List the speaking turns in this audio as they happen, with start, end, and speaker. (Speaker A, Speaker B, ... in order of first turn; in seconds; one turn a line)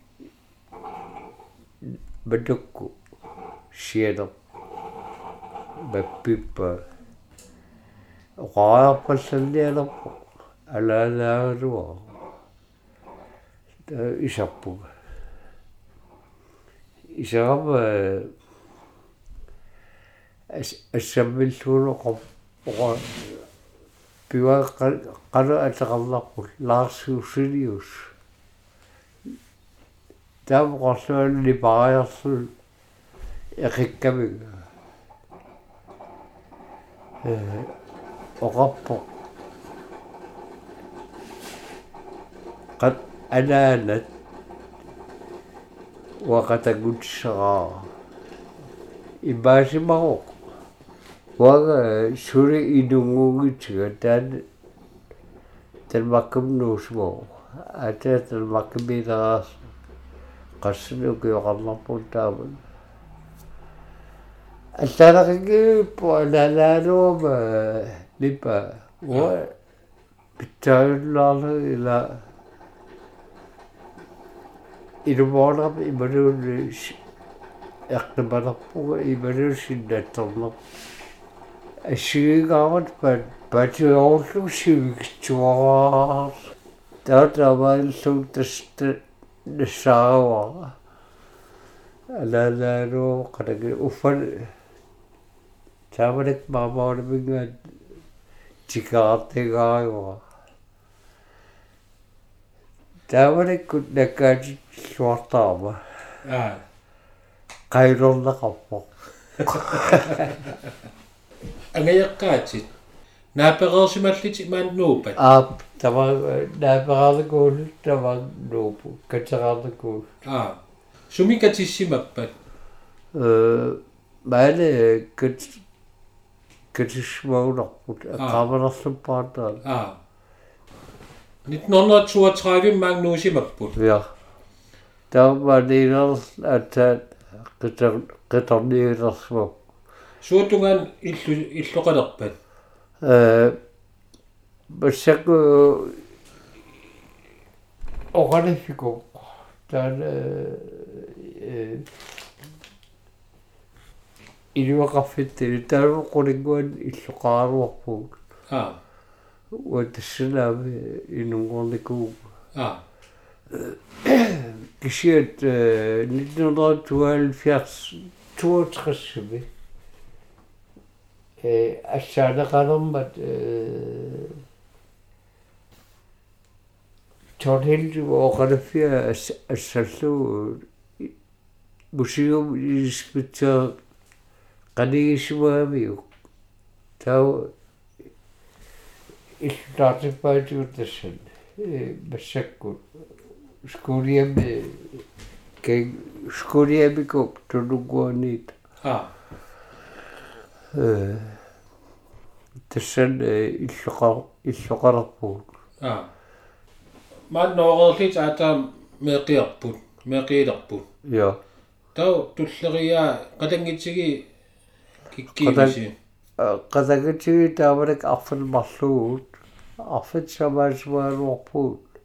Speaker A: 1.8-3.0
Speaker A: 3.7-4.3
Speaker A: 5.8-6.8
Speaker A: 8.4-12.1
Speaker A: 13.9-14.9
Speaker A: 17.1-18.3
Speaker A: 20.5-23.4
Speaker A: 24.3-28.1
Speaker A: 30.5-32.5
Speaker A: 33.6-34.7
Speaker A: 37.2-37.7
Speaker A: 38.4-39.1
Speaker A: 42.8-44.1
Speaker A: 46.2-47.9
Speaker A: 49.2-50.4
Speaker A: 51.4-54.4
Speaker A: 55.9-59.6
Speaker A: 60.6-62.6
Speaker A: 64.8-69.5
Speaker A: 70.4-72.2
Speaker A: 75.0-77.0
Speaker A: 77.9-80.6
Speaker A: 81.8-86.4
Speaker A: 87.0-90.8
Speaker A: 92.1-94.5
Speaker A: 95.9-97.6
Speaker A: 98.7-100.2
Speaker A: 103.1-105.8
Speaker B: 106.2-106.6
Speaker A: 107.7-108.9
Speaker A: 109.5-110.5
Speaker B: 109.8-110.3
Speaker B: 111.7-112.7
Speaker B: 113.4-115.2
Speaker A: 115.2-120.1
Speaker B: 120.2-120.6
Speaker B: 121.1-122.3
Speaker A: 123.1-125.6
Speaker A: 126.7-129.6
Speaker B: 129.7-130.0
Speaker B: 131.5-133.8
Speaker A: 133.8-134.1
Speaker A: 135.1-139.6
Speaker B: 140.2-142.3
Speaker A: 143.0-143.6
Speaker A: 144.7-146.0
Speaker A: 148.1-151.9
Speaker A: 154.6-158.2
Speaker B: 158.5-158.8
Speaker A: 159.5-162.2
Speaker B: 162.6-162.8
Speaker A: 163.5-169.5
Speaker A: 171.4-174.4
Speaker A: 177.4-181.1
Speaker A: 181.9-183.8
Speaker A: 184.8-186.1
Speaker A: 187.0-187.5
Speaker A: 189.4-192.8
Speaker A: 193.7-195.0
Speaker A: 195.6-198.5
Speaker B: 198.8-199.1
Speaker A: 200.7-201.4
Speaker A: 202.7-205.5
Speaker B: 205.8-206.1
Speaker B: 207.3-210.8
Speaker A: 211.1-211.4
Speaker B: 211.9-214.3
Speaker B: 215.1-215.9
Speaker A: 215.4-215.8
Speaker A: 216.4-221.8